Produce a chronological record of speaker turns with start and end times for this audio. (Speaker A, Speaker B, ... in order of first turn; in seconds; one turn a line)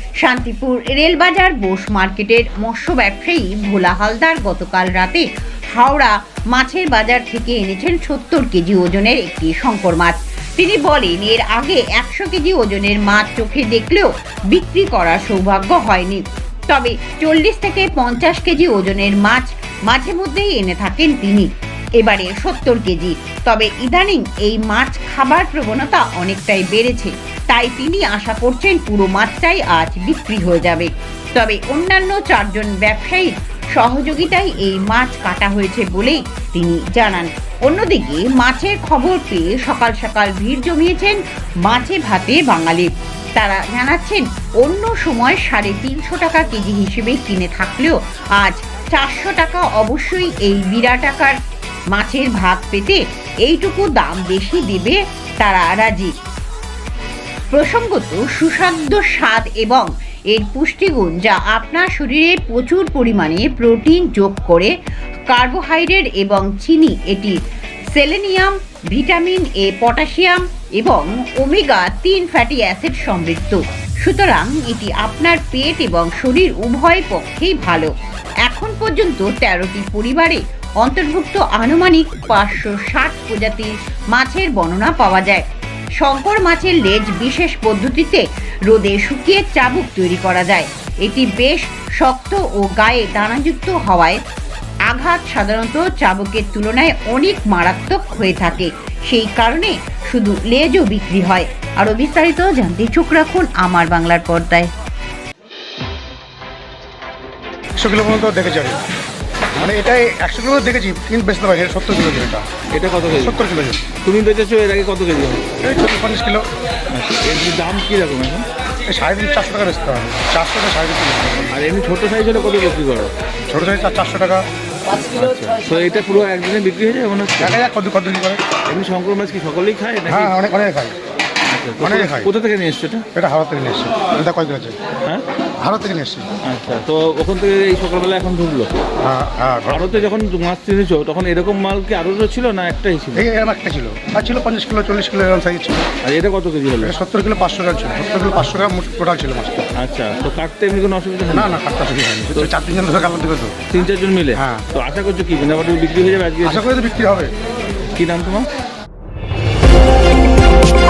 Speaker A: 0.2-51.4
Speaker A: 51.9-56.1
Speaker A: 57.5-64.7
Speaker A: 65.3-67.3
Speaker A: 67.9-77.9
Speaker A: 78.5-85.4
Speaker A: 86.0-94.2
Speaker A: 94.9-104.7
Speaker B: 107.8-108.8
Speaker B: 109.6-112.5
Speaker C: 112.8-113.4
Speaker B: 113.2-113.8
Speaker C: 114.0-115.5
Speaker B: 115.6-116.5
Speaker C: 116.9-118.5
Speaker B: 118.9-121.5
Speaker C: 121.5-123.1
Speaker B: 123.5-124.4
Speaker C: 125.1-127.6
Speaker B: 127.4-128.4
Speaker C: 128.7-130.3
Speaker B: 130.1-131.0
Speaker C: 131.5-133.0
Speaker B: 131.8-132.3
Speaker B: 133.2-134.8
Speaker B: 135.6-136.3
Speaker C: 136.4-138.8
Speaker B: 139.0-139.9
Speaker C: 139.7-143.3
Speaker B: 143.2-145.8
Speaker C: 146.0-146.9
Speaker B: 146.8-149.7
Speaker C: 149.8-151.6
Speaker B: 151.3-153.6
Speaker C: 153.7-156.7
Speaker B: 154.3-154.7
Speaker B: 156.4-157.3
Speaker C: 157.9-158.5